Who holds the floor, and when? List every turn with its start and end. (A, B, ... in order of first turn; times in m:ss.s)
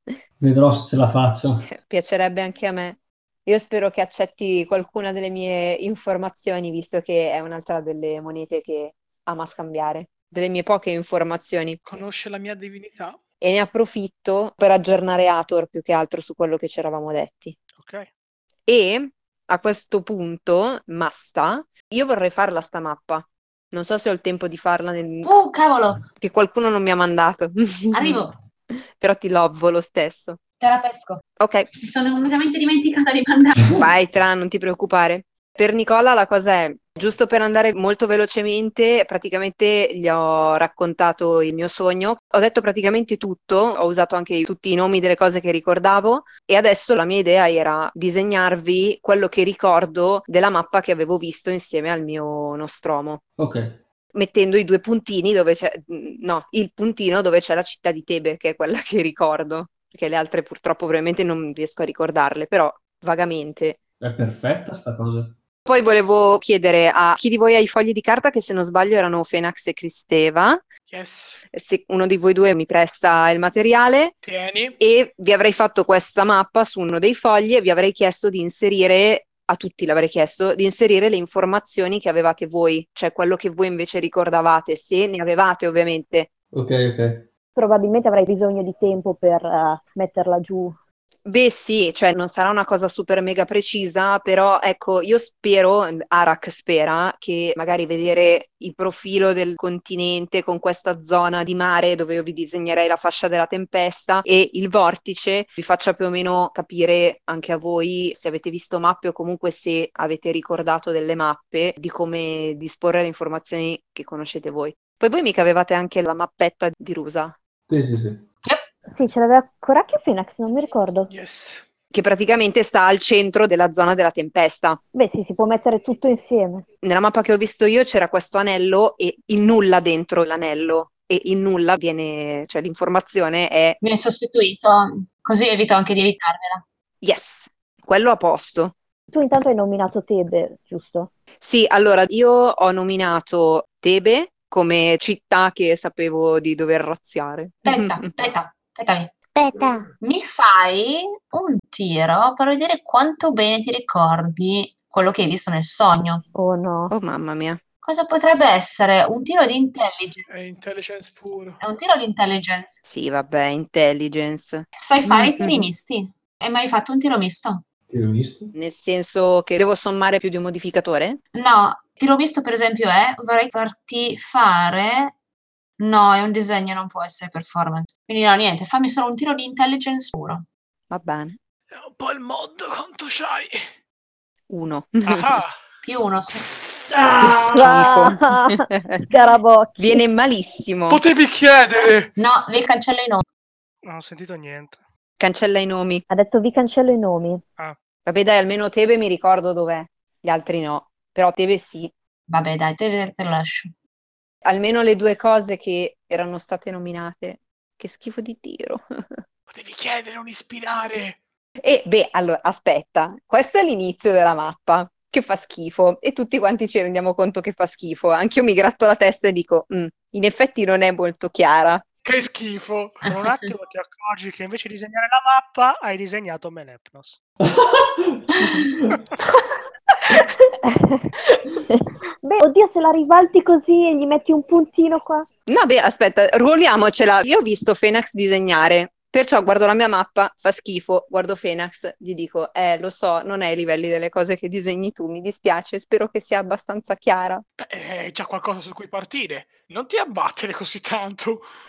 0:00.4-0:01.7 A
0:01.6-0:11.8 B
0:11.8-0:13.2 C
0:13.4-0:17.6 B
0:17.7-0:18.1 D
0:18.7-0:25.3 B
0:25.2-0:26.0 E
0:26.2-0:28.3 B
0:27.9-0:28.3 E
0:29.0-0:30.4 B
0:30.6-0:31.2 E
0:31.4-0:31.7 B
0:31.8-0:33.8 E
0:33.8-0:53.2 B
0:53.4-0:53.8 A
0:54.1-1:03.8 B
1:04.0-1:05.4 A
1:05.6-1:10.6 B
1:10.9-1:11.4 C
1:11.5-1:14.2 B
1:14.2-1:14.8 C
1:14.8-1:26.3 B
1:26.5-1:27.3 A
1:27.5-1:30.8 F
1:31.2-1:57.4 B
1:57.7-1:58.2 A
1:58.9-2:01.1 F
2:01.1-2:01.6 C
2:01.9-2:04.8 B
2:04.9-2:06.6 F
2:06.8-2:13.8 B
2:13.8-2:16.6 E
2:17.0-2:18.7 B
2:19.1-2:21.1 F
2:21.4-2:28.1 B
2:27.6-2:29.1 E
2:30.0-2:36.2 E
2:36.3-2:36.9 F
2:36.9-2:37.6 B
2:37.8-2:40.2 E
2:40.3-2:41.6 C
2:41.6-2:42.8 E
2:42.8-2:45.7 B
2:44.8-2:47.6 E
2:47.9-2:48.5 A
2:48.5-2:51.2 B
2:51.3-2:55.1 E
2:55.8-3:00.4 E
3:00.9-3:01.4 B
3:01.7-3:03.6 C
3:04.5-3:05.4 B
3:05.1-3:05.6 C
3:05.8-3:06.5 E
3:06.4-3:07.0 C
3:06.9-3:07.6 A
3:07.2-3:09.1 B
3:07.5-3:10.0 F
3:09.8-3:11.0 B
3:10.9-3:12.1 C
3:12.2-3:13.2 E
3:13.8-3:14.8 D
3:15.2-3:16.0 B
3:16.1-3:17.4 F
3:18.0-3:21.9 B
3:22.3-3:23.7 E
3:24.4-3:29.2 B
3:29.5-3:31.2 C
3:31.6-3:41.8 B
3:42.0-3:43.0 C
3:43.0-3:47.2 D
3:47.4-3:48.9 A
3:50.6-3:51.1 F
3:51.7-3:55.3 F
3:55.5-4:07.4 B
4:07.6-4:11.4 C